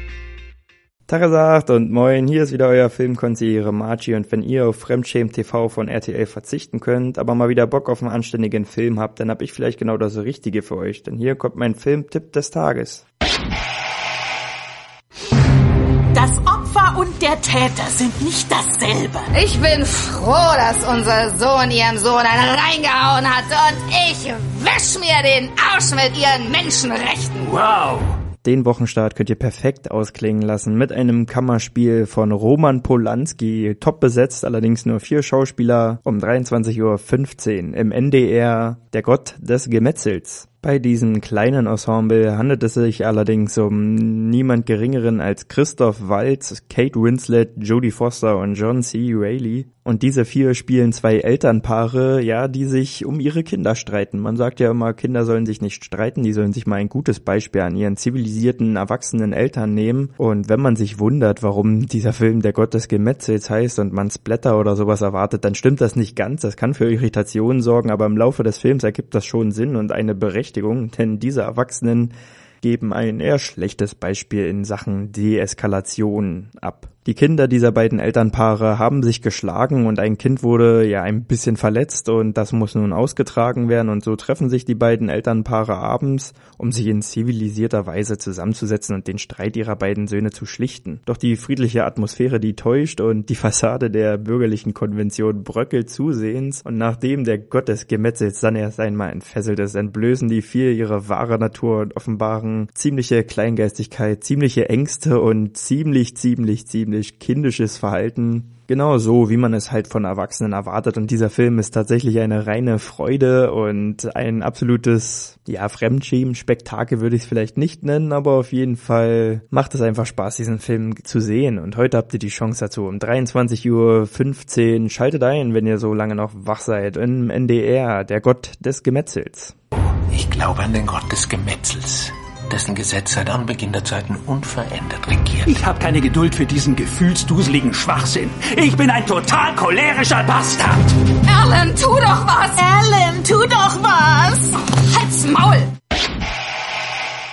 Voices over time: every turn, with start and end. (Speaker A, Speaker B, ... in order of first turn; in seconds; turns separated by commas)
Speaker A: 1.1-13.0, Speaker B: 16.1-19.3, Speaker C: 19.3-28.0, Speaker A: 28.4-129.5, Speaker D: 130.1-135.6, Speaker E: 135.4-140.9, Speaker C: 141.2-142.6, Speaker B: 142.5-144.5, Speaker C: 144.6-145.7